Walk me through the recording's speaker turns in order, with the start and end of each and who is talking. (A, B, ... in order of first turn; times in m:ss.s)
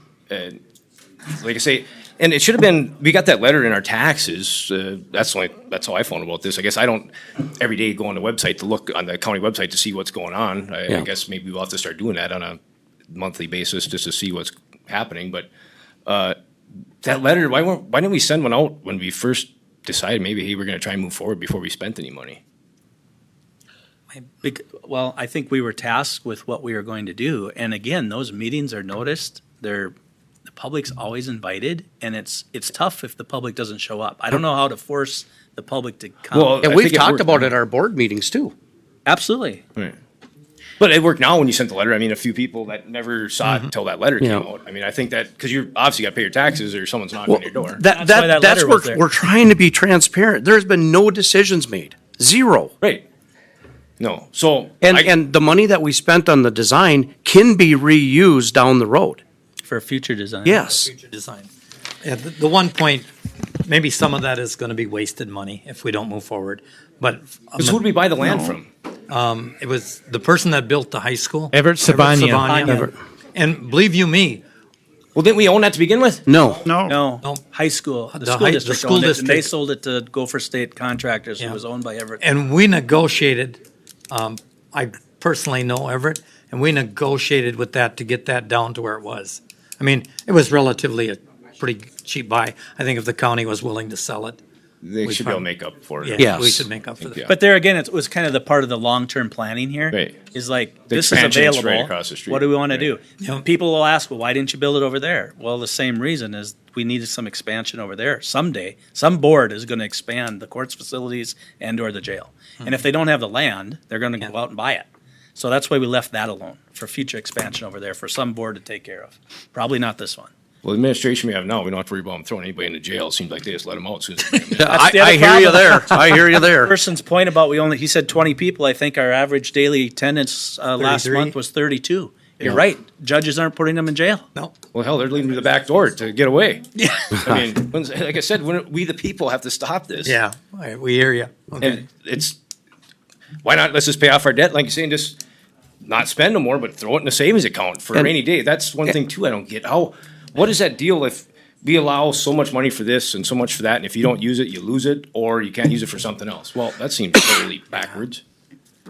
0:00.3-0:00.6 A
0:01.3-0:12.6 A
0:13.1-0:15.5 A
0:16.0-0:16.4 A
0:17.0-0:22.4 A
0:24.4-0:29.9 B
0:30.5-0:36.6 B
0:36.3-0:37.5 A
0:36.6-0:38.5 C
0:39.0-0:39.6 B
0:40.8-0:47.8 A
0:44.2-0:44.5 C
0:47.3-0:52.7 C
0:47.8-0:49.0 B
0:52.8-0:53.0 A
0:54.0-0:55.1 A
0:54.8-0:59.2 C
0:59.6-1:00.6 B
1:00.4-1:00.9 C
1:00.6-1:01.5 D
1:02.0-1:03.1 D
1:03.6-1:07.8 D
1:07.6-1:08.7 A
1:08.3-1:08.6 E
1:09.1-1:14.4 D
1:11.5-1:12.9 E
1:12.4-1:12.9 B
1:15.1-1:16.3 A
1:16.3-1:16.7 C
1:16.6-1:17.0 E
1:16.9-1:22.2 B
1:18.1-1:19.5 D
1:22.2-1:23.6 D
1:24.1-1:34.4 D
1:34.8-1:36.3 A
1:35.0-1:35.4 D
1:36.0-1:37.2 D
1:36.2-1:36.6 C
1:37.0-1:37.3 A
1:37.3-2:00.3 B
1:39.9-1:40.2 A
1:40.9-1:42.9 A
1:43.2-1:43.4 D
2:00.6-2:04.8 A
2:04.5-2:06.7 C
2:04.7-2:14.2 B
2:10.8-2:11.4 D
2:14.7-2:20.1 A
2:16.8-2:17.3 D
2:20.0-2:21.8 D
2:21.6-2:22.4 A
2:23.4-2:25.2 A
2:25.8-2:38.2 A